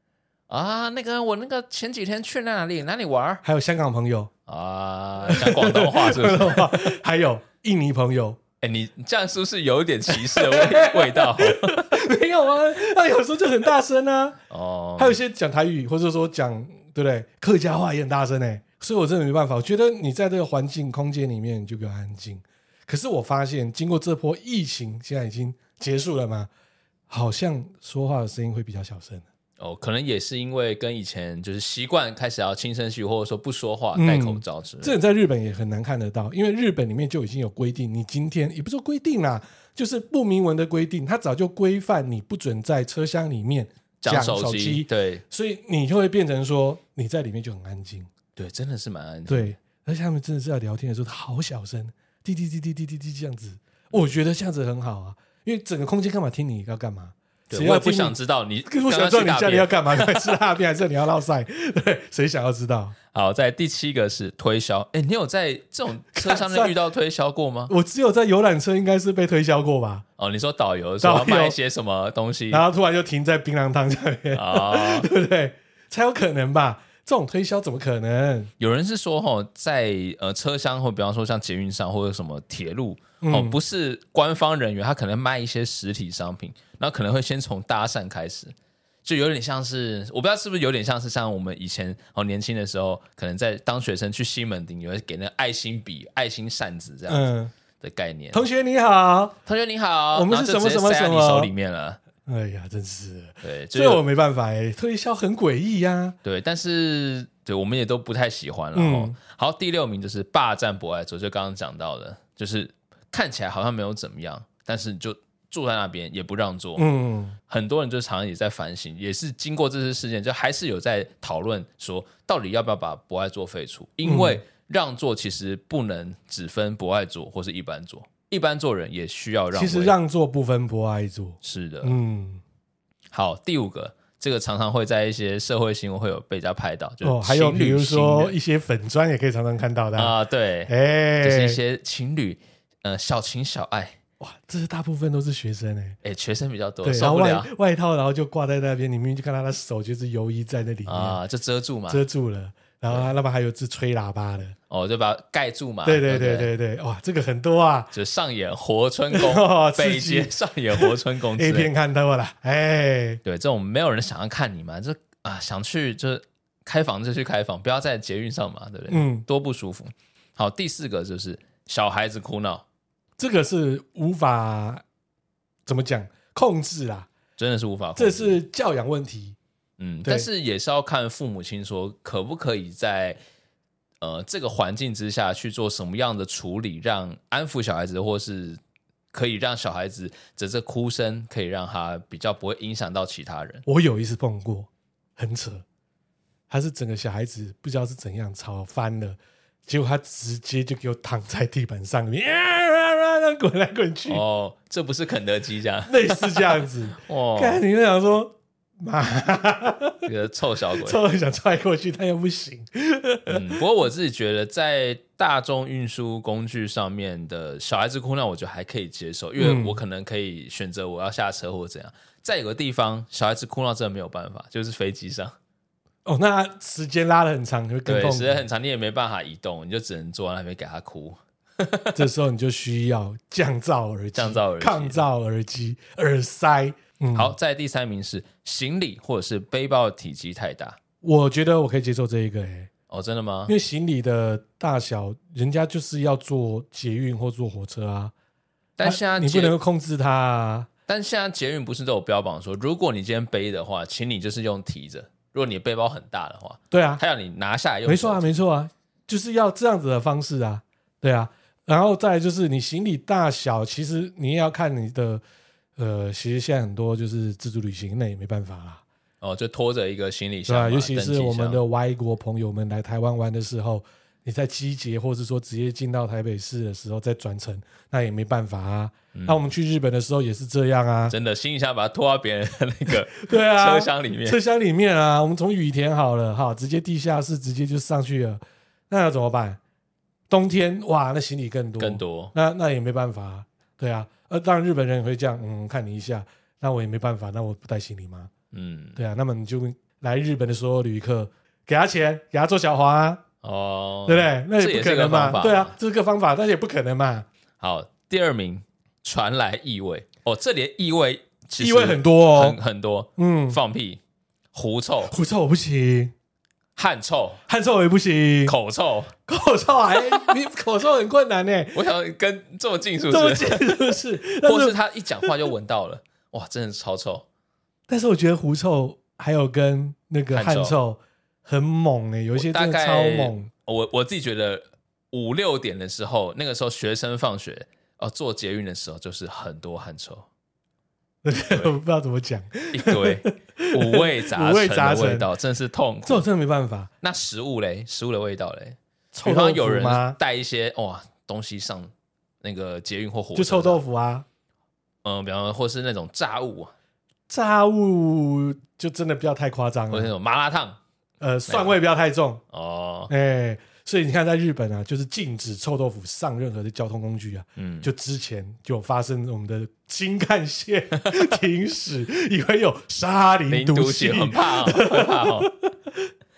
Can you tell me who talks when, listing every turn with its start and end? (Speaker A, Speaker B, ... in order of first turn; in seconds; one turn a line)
Speaker A: 0.5-3.4
Speaker B: 3.4-4.3
Speaker A: 4.5-6.8
Speaker B: 5.3-8.4
Speaker A: 8.6-12.0
Speaker B: 10.1-14.4
Speaker A: 14.5-15.2
Speaker B: 15.0-26.5
Speaker B: 27.1-29.2
Speaker A: 29.6-35.0
Speaker B: 33.9-48.1
Speaker A: 44.0-45.2
Speaker A: 48.4-49.5
Speaker B: 49.3-62.9
Speaker A: 57.5-60.3
Speaker A: 63.1-67.7
Speaker B: 66.1-66.7
Speaker B: 67.7-70.0
Speaker A: 70.2-72.6
Speaker B: 71.0-71.6
Speaker B: 72.5-78.5
Speaker A: 74.3-75.1
Speaker A: 78.6-88.5
Speaker B: 83.2-83.6
Speaker A: 89.0-98.4
Speaker B: 97.1-97.5
Speaker B: 98.3-99.4
Speaker A: 99.5-102.0
Speaker B: 100.1-101.5
Speaker B: 102.2-106.2
Speaker A: 103.4-104.0
Speaker A: 106.2-116.8
Speaker B: 108.7-109.1
Speaker B: 116.8-117.3
Speaker A: 117.5-129.9
Speaker B: 124.0-124.4
Speaker B: 129.5-132.4
Speaker A: 131.4-131.9
Speaker A: 133.1-138.3
Speaker B: 137.0-140.1
Speaker A: 139.9-144.0
Speaker B: 140.7-141.6
Speaker B: 144.2-146.0
Speaker A: 146.0-147.5
Speaker B: 146.8-151.2
Speaker A: 150.8-152.0
Speaker B: 151.9-154.6
Speaker A: 154.7-156.5
Speaker B: 155.8-157.9
Speaker A: 157.9-161.7
Speaker B: 159.1-163.2
Speaker A: 163.2-172.6
Speaker B: 168.9-169.2
Speaker B: 173.2-174.8
Speaker B: 175.7-177.1
Speaker A: 177.4-178.4
Speaker B: 177.9-179.4
Speaker A: 179.8-183.2
Speaker A: 184.0-188.6
Speaker A: 189.1-193.6
Speaker B: 193.7-195.6
Speaker B: 196.5-204.2
Speaker A: 204.1-207.6
Speaker B: 205.9-210.1
Speaker A: 210.0-211.0
Speaker B: 210.8-213.5
Speaker A: 213.3-225.3
Speaker B: 219.4-219.8
Speaker B: 226.0-228.4
Speaker A: 227.8-232.0
Speaker B: 231.9-237.3
Speaker A: 234.1-235.0
Speaker A: 237.1-240.8
Speaker B: 241.0-242.7
Speaker A: 242.9-243.5
Speaker B: 243.5-248.1
Speaker A: 248.8-249.5
Speaker B: 248.8-250.7
Speaker A: 250.9-258.2
Speaker B: 256.7-257.0
Speaker B: 257.9-265.2
Speaker B: 265.8-268.8
Speaker A: 269.2-271.6
Speaker B: 270.5-281.1
Speaker A: 279.1-279.4
Speaker A: 281.1-284.4
Speaker B: 283.1-289.6
Speaker B: 290.3-298.3
Speaker A: 291.8-292.3
Speaker A: 298.5-299.0
Speaker B: 298.9-303.2
Speaker A: 303.4-305.7
Speaker B: 304.1-307.2
Speaker A: 307.6-314.0
Speaker B: 311.6-312.6
Speaker B: 313.2-313.6
Speaker A: 314.5-315.1
Speaker B: 315.1-316.1
Speaker A: 316.8-317.4
Speaker B: 317.5-318.5
Speaker A: 318.4-319.1
Speaker B: 319.3-321.8
Speaker A: 321.7-327.2
Speaker B: 323.1-325.3
Speaker B: 327.9-333.5
Speaker A: 330.3-330.8
Speaker A: 332.4-340.3
Speaker B: 341.2-345.3
Speaker A: 341.5-341.7
Speaker A: 342.7-346.2
Speaker B: 346.1-346.9
Speaker A: 347.0-351.9
Speaker B: 349.1-350.2
Speaker A: 352.4-353.8
Speaker B: 353.3-354.2
Speaker A: 355.0-356.7
Speaker B: 357.3-360.1
Speaker A: 359.9-360.8
Speaker B: 361.2-362.4
Speaker A: 361.5-361.8
Speaker A: 362.5-363.1
Speaker B: 363.1-376.1
Speaker A: 367.6-367.9
Speaker A: 371.0-371.3
Speaker A: 373.5-375.5